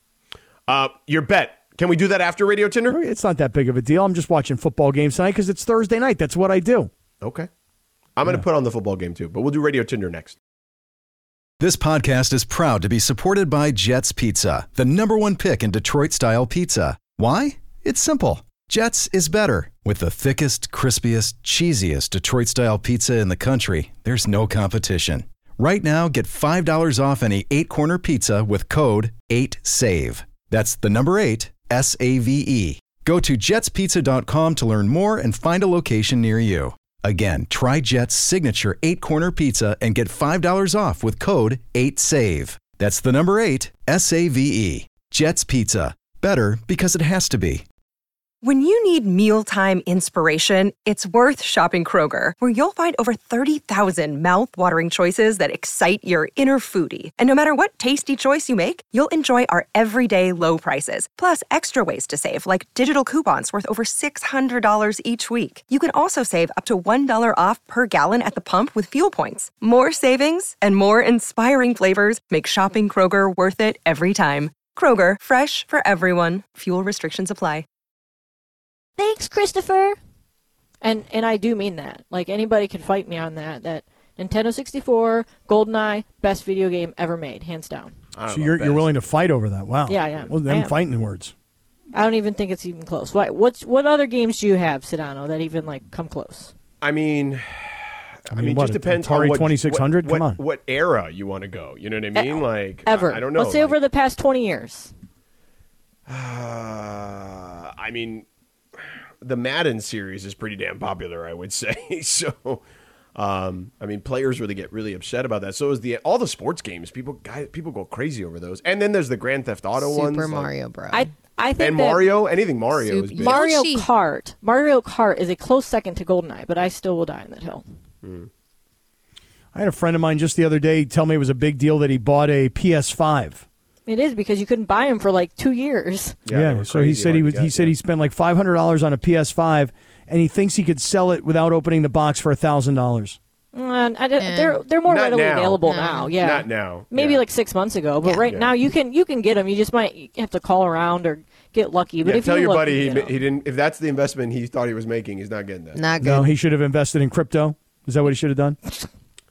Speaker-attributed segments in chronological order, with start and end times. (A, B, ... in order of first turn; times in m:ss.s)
0:00.7-0:03.0 A
0:02.9-0:06.9 B
0:07.2-0:07.5 A
0:08.2-0:10.4 A
0:11.6-0:47.6 C
0:48.4-1:17.6 D
1:19.0-1:20.0 E
1:20.8-1:27.9 E
1:28.1-1:28.9 A
1:28.3-1:31.3 B
1:29.9-1:30.7 E
1:31.9-1:36.5 E
1:36.8-1:43.8 A
1:38.3-1:40.4 B
1:42.2-1:44.9 E
1:46.1-1:48.2 A
1:49.2-1:52.6 A
1:53.1-2:00.5 A
1:59.8-2:01.1 F
2:00.9-2:02.1 E
2:01.6-2:03.4 A
2:02.8-2:03.9 F
2:03.2-2:07.6 E
2:08.0-2:08.3 A
2:09.5-2:13.4 B
2:13.8-2:16.2 E
2:16.2-2:17.7 A
2:16.3-2:23.2 B
2:23.5-2:33.2 E
2:24.2-2:24.6 F
2:24.9-2:27.2 A
2:25.6-2:26.1 F
2:32.0-2:35.9 A
2:35.7-2:36.3 F
2:36.0-2:38.6 B